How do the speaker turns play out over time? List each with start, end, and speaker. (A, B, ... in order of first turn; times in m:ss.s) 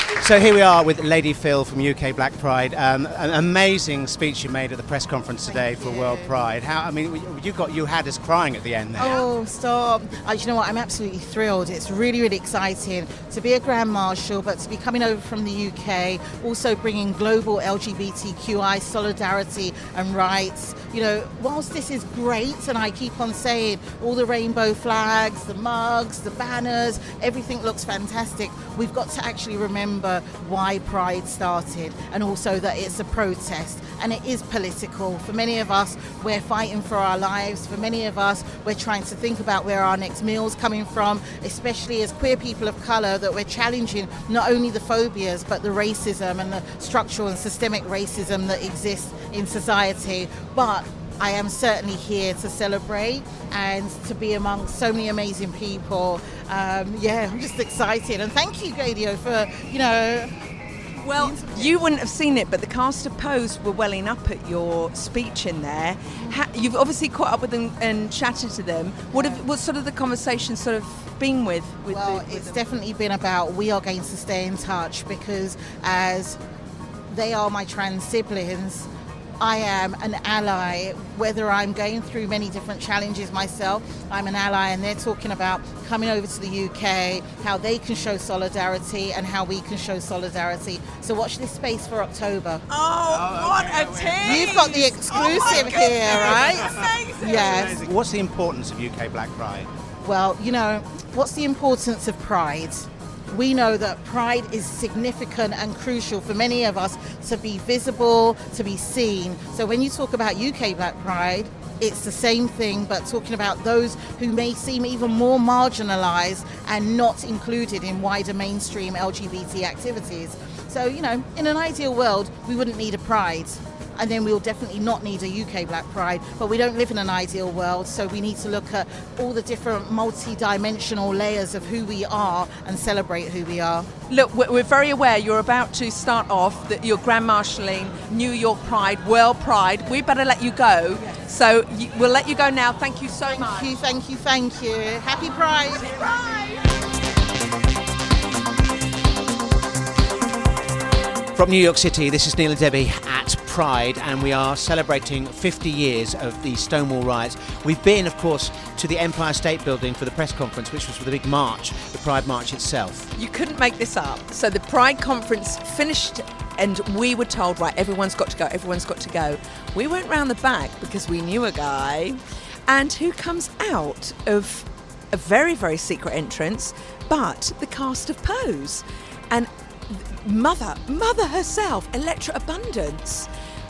0:00.2-0:09.2 A
0:05.5-0:06.4 B
0:09.0-1:00.3 B
1:01.0-1:12.6 C
1:01.2-1:01.7 B
1:09.1-1:09.4 B
1:11.8-1:16.4 B
1:17.1-1:18.9 B
1:19.4-1:32.6 B
1:32.7-1:37.6 C
1:34.2-1:37.9 B
1:37.3-1:39.7 A
1:40.0-2:13.9 B
2:14.1-2:23.8 C
2:23.2-2:26.1 B
2:31.4-2:43.1 A
2:43.1-3:03.3 C